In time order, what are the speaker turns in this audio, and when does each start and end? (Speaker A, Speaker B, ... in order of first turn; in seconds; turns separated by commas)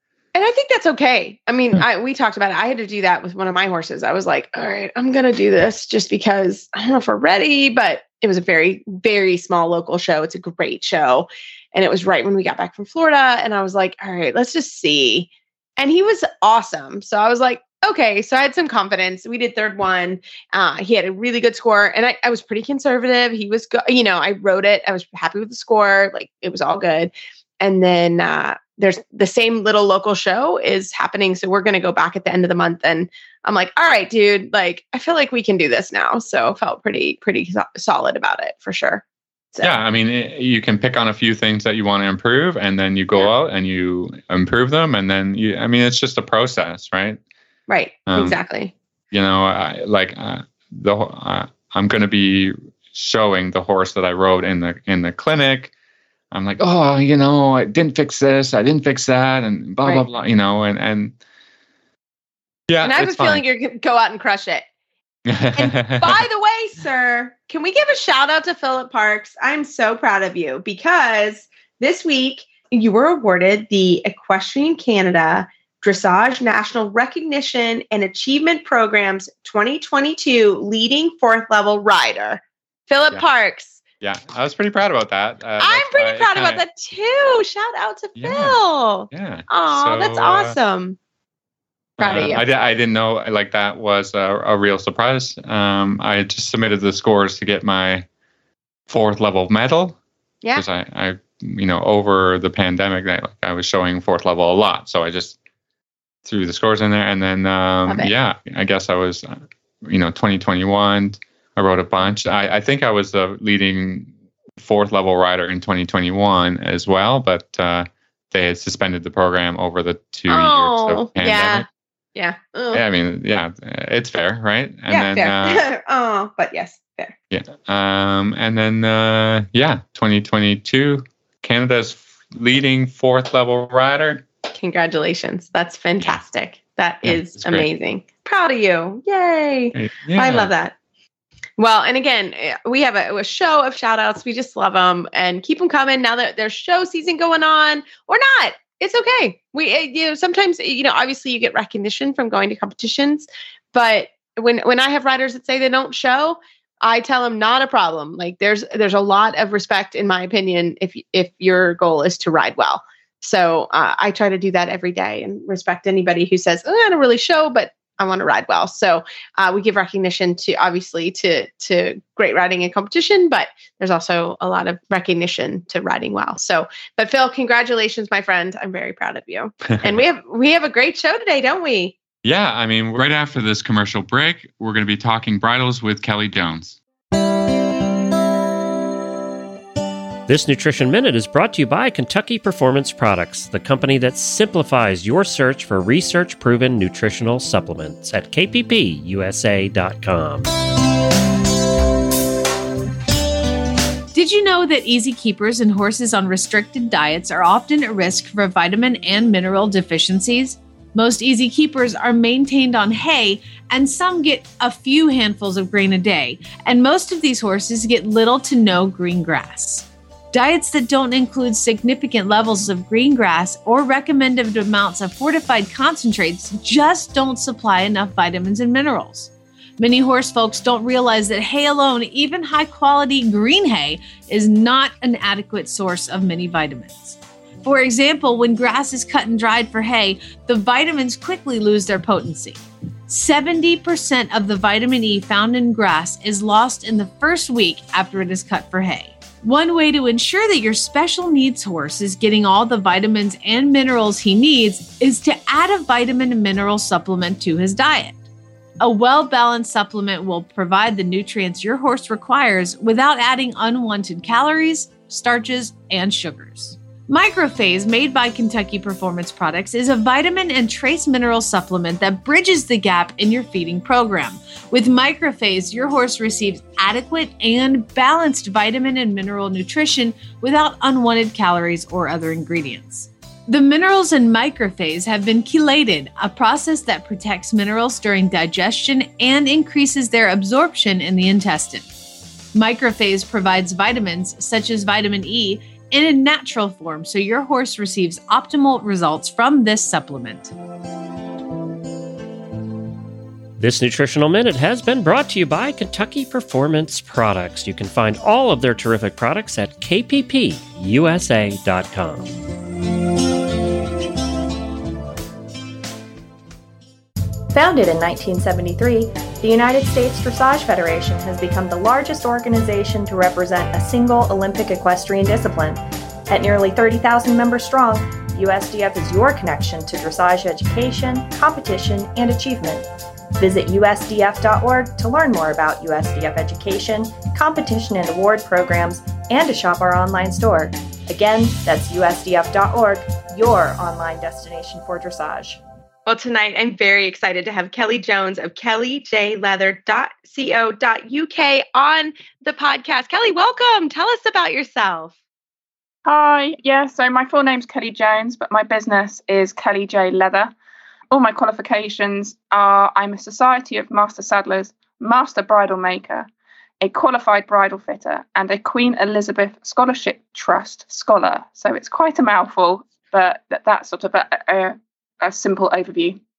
Speaker A: 0.3-39.7, Speaker B: 39.6-47.2, Speaker A: 47.7-48.7, Speaker B: 48.1-48.4, Speaker B: 49.1-55.7, Speaker B: 56.3-61.1, Speaker B: 62.7-63.4, Speaker A: 62.8-64.7, Speaker B: 65.3-66.2, Speaker A: 65.5-83.8, Speaker B: 84.0-86.6, Speaker A: 85.6-91.0, Speaker B: 88.2-90.6, Speaker B: 92.0-98.0, Speaker A: 92.0-92.5, Speaker B: 98.9-100.0, Speaker B: 100.5-105.4, Speaker B: 106.2-121.7, Speaker A: 107.9-108.1, Speaker A: 120.3-122.8, Speaker B: 122.7-125.6, Speaker A: 124.9-127.1, Speaker B: 127.3-134.2, Speaker A: 134.5-140.8, Speaker B: 137.0-137.7, Speaker B: 139.8-140.5, Speaker A: 141.6-182.0, Speaker B: 179.7-180.0, Speaker B: 182.2-186.8, Speaker C: 190.3-200.5, Speaker D: 204.1-258.2, Speaker D: 258.8-291.9, Speaker D: 292.5-300.5, Speaker C: 303.6-312.4, Speaker E: 317.5-332.9, Speaker E: 333.4-345.6, Speaker A: 346.1-355.1, Speaker F: 356.1-360.5, Speaker F: 361.1-366.3, Speaker F: 366.8-376.2